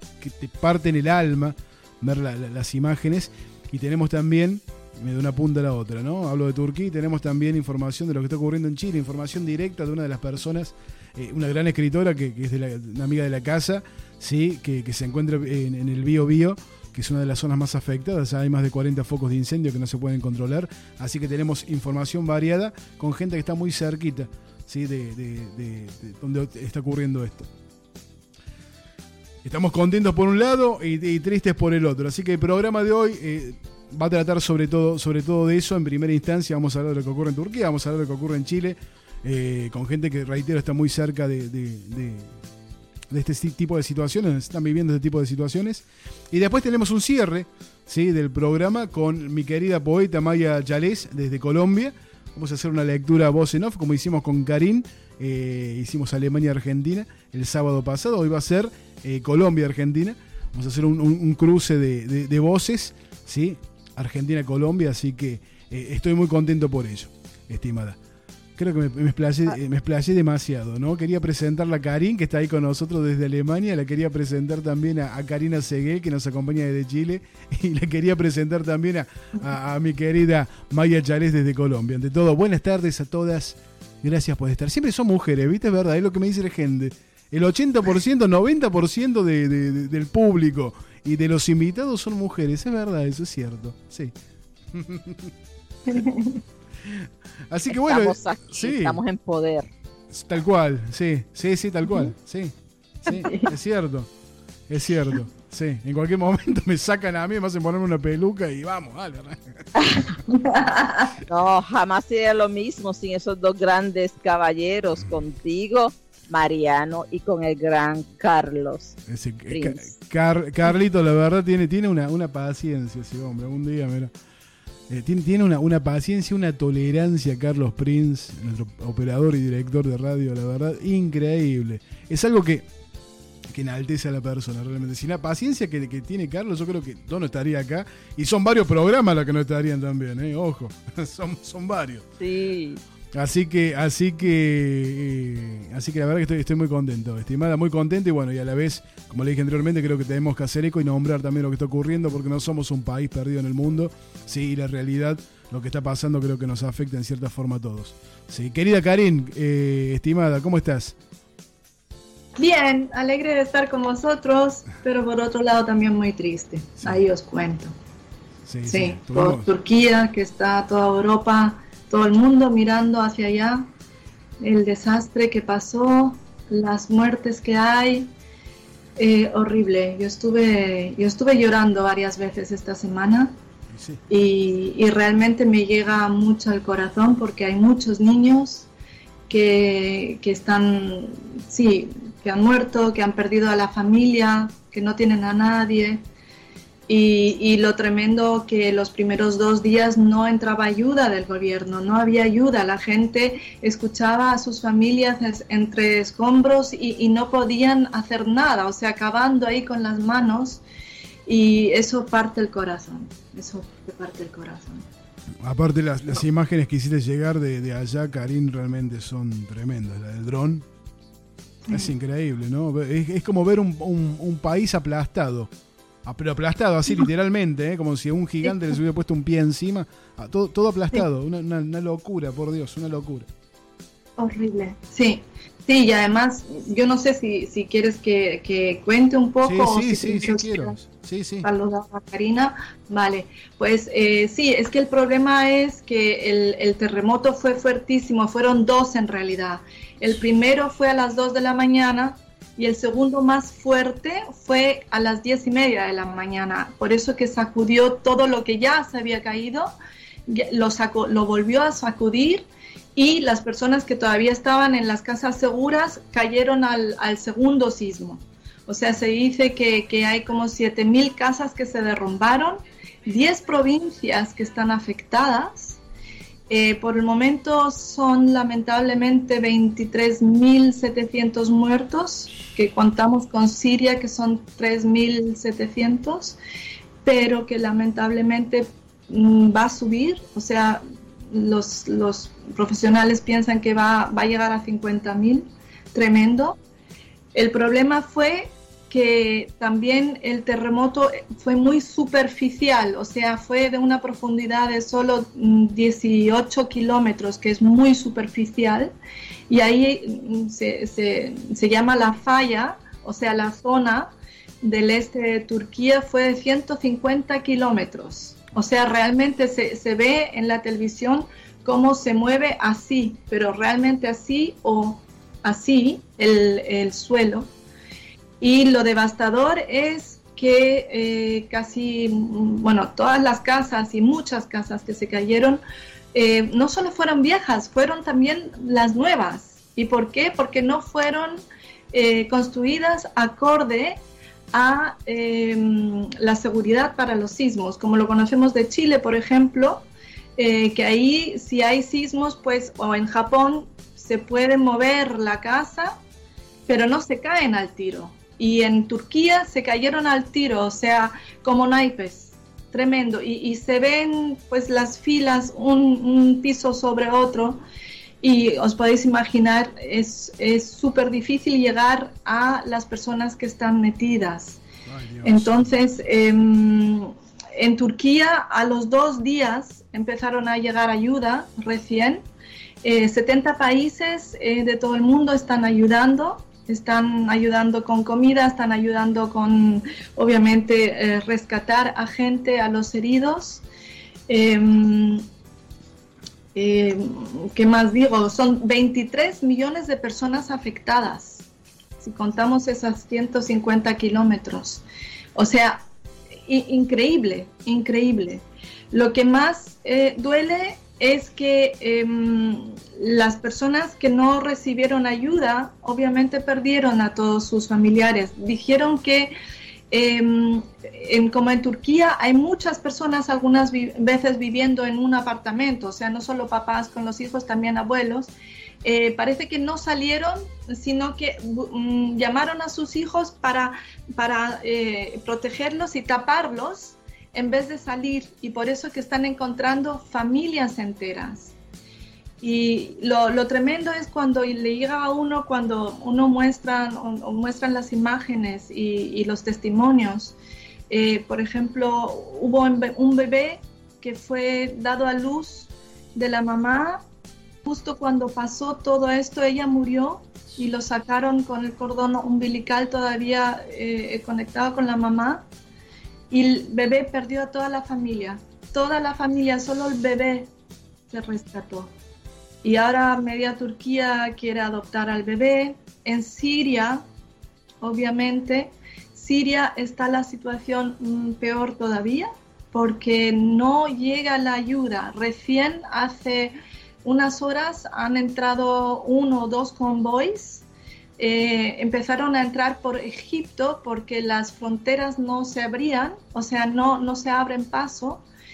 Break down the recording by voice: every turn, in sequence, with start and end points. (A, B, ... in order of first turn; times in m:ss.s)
0:00.2-0:27.5 A
0:29.4-0:42.4 A
0:43.1-1:08.0 A
1:08.6-1:34.1 A
1:34.7-1:35.3 A
1:35.9-1:36.4 B
1:36.8-1:39.0 A
1:37.7-1:39.7 C
1:40.1-1:44.1 A
1:44.7-1:49.6 A
1:49.8-1:50.1 C
1:50.3-1:51.1 B
1:51.3-1:59.0 C
1:59.1-2:04.1 A
1:59.5-1:59.9 C
2:04.9-2:12.7 A
2:13.5-2:22.0 A
2:22.2-2:22.8 C
2:23.1-2:40.9 A
2:42.4-2:47.7 B
2:48.4-2:49.5 A
2:48.7-2:53.7 B
2:54.4-2:58.1 B
2:59.0-3:03.3 B
3:03.7-3:04.0 A
3:04.1-3:08.7 B
3:09.3-3:16.0 B
3:16.9-3:30.6 B
3:31.2-3:34.8 B
3:35.4-3:40.7 A
3:41.6-3:41.9 B
3:41.7-3:45.5 A
3:46.0-3:53.3 A
3:48.4-3:48.8 B
3:54.2-4:00.8 B
3:59.4-4:01.5 A
4:01.4-4:19.7 B
4:20.3-4:35.8 B
4:36.5-4:46.4 B
4:47.0-4:56.6 B
4:57.3-5:08.9 B
5:09.5-5:27.5 B
5:28.4-5:35.6 B
5:36.1-5:44.0 B
5:44.5-5:56.0 B
5:56.7-6:07.6 B
6:08.2-6:14.6 B
6:14.9-6:15.7 A
6:15.2-6:22.2 B
6:22.8-6:33.6 B
6:34.3-6:35.2 B
6:36.5-6:41.4 B
6:42.0-6:44.8 B
6:45.3-6:45.8 B
6:46.4-6:59.3 B
6:59.9-7:08.3 B
7:08.8-7:21.5 B
7:22.4-7:30.3 B
7:30.9-7:37.0 B
7:37.6-7:45.5 B
7:46.3-7:50.5 B
7:51.1-7:51.9 B
7:52.6-7:57.0 B
7:57.8-8:10.6 B
8:11.2-8:18.2 B